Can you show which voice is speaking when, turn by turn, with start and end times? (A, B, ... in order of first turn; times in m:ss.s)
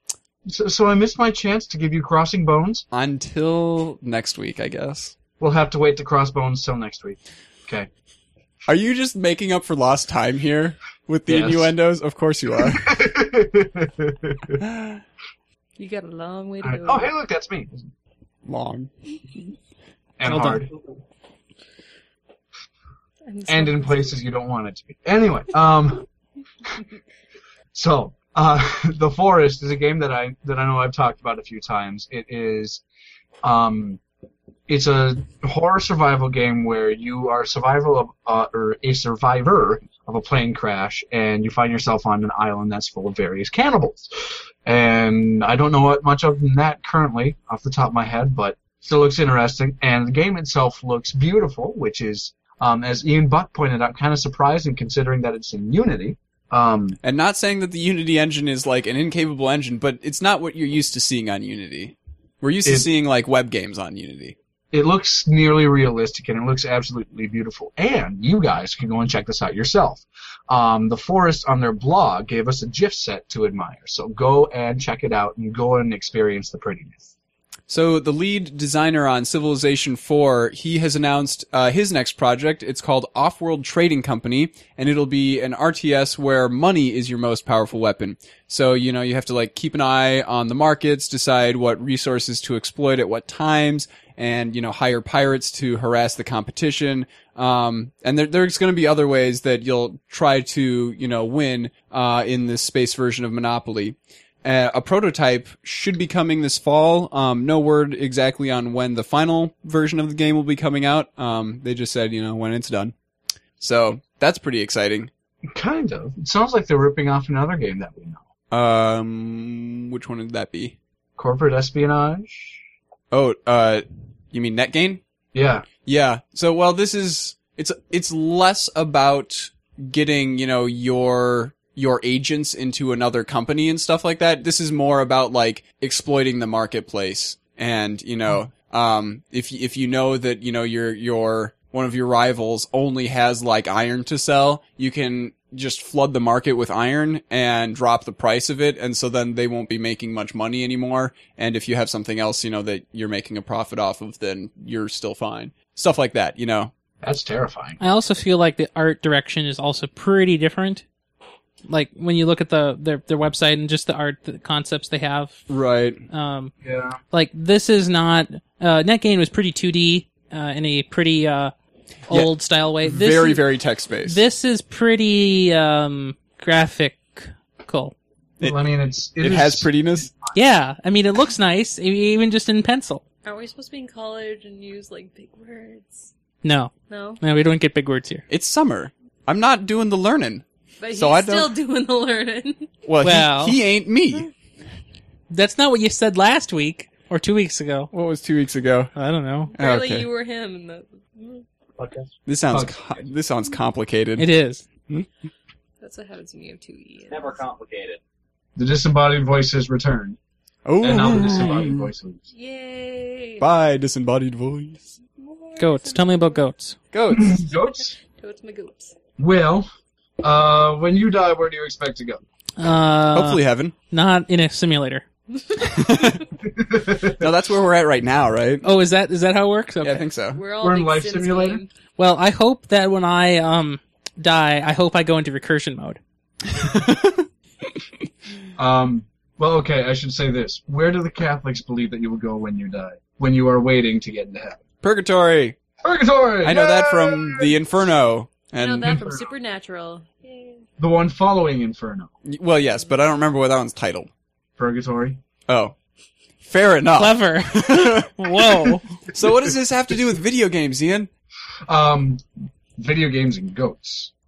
0:00.5-0:02.8 A
0:02.9-0:05.1 B
0:05.4-0:07.9 A
0:08.7-0:13.0 B
0:11.3-0:11.7 A
0:12.6-0:14.6 A
0:14.6-0:15.0 B
0:15.8-0:17.1 C
0:16.6-0:17.9 A
0:18.4-0:18.9 B
0:20.2-0:20.7 A
0:20.2-0:20.6 D
0:23.2-0:24.2 C
0:23.5-0:26.1 A
0:27.7-0:32.8 A
0:33.4-0:34.0 A
0:34.7-0:44.1 A
0:44.6-0:57.0 A
0:57.0-1:04.4 B
1:04.7-1:17.1 A
1:17.7-1:52.9 B
1:53.6-1:55.1 B
1:55.5-1:58.2 A
1:58.5-2:00.8 B
2:01.2-2:02.6 A
2:03.1-2:05.0 B
2:05.3-2:05.7 A
2:05.8-2:36.7 B
2:37.0-2:37.8 A
2:37.8-2:40.8 D
2:41.7-2:45.4 D
2:45.5-2:46.0 B
2:46.1-2:46.5 D
2:46.6-2:47.0 A
2:47.1-2:51.5 D
2:52.1-2:53.4 D
2:52.8-2:54.2 B
2:54.0-2:57.9 D
2:58.4-3:00.3 A
2:59.2-3:00.1 B
3:00.3-3:03.0 D
3:03.2-3:06.1 C
3:06.4-3:08.2 D
3:06.9-3:07.2 C
3:08.3-3:11.5 B
3:10.8-3:12.7 C
3:12.8-3:14.3 B
3:13.0-3:13.6 D
3:15.3-3:17.9 D
3:17.9-3:18.9 B
3:19.0-3:19.5 D
3:19.5-3:21.4 C
3:19.6-3:20.1 B
3:21.8-3:22.7 A
3:22.2-3:24.3 B
3:24.2-3:24.6 D
3:25.8-3:27.4 C
3:27.4-3:27.8 A
3:28.6-3:30.2 A
3:30.6-3:31.9 B
3:30.8-3:32.2 A
3:32.3-3:33.4 C
3:33.4-3:35.0 B
3:35.2-3:36.4 C
3:35.6-3:36.8 D
3:36.9-3:37.4 B
3:37.1-3:37.9 A
3:37.5-3:39.0 C
3:39.2-3:39.7 A
3:40.2-3:42.2 A
3:42.6-3:45.0 D
3:43.1-3:43.7 B
3:45.4-3:45.7 C
3:45.6-3:46.2 B
3:46.5-3:47.2 A
3:47.1-3:48.6 B
3:48.6-3:50.0 D
3:49.8-3:50.4 B
3:50.3-3:51.7 C
3:50.6-3:51.6 A
3:52.0-3:56.0 D
3:56.5-3:57.3 B
3:58.6-4:04.6 A
4:04.8-4:05.6 B
4:05.8-4:07.6 A
4:06.4-4:09.0 B
4:08.6-4:10.6 C
4:08.8-4:09.2 A
4:10.8-4:12.1 A
4:12.2-4:14.1 B
4:14.6-4:15.2 A
4:15.5-4:15.7 B
4:16.4-4:21.1 B
4:17.0-4:18.9 D
4:21.7-4:22.2 A
4:22.8-4:24.1 A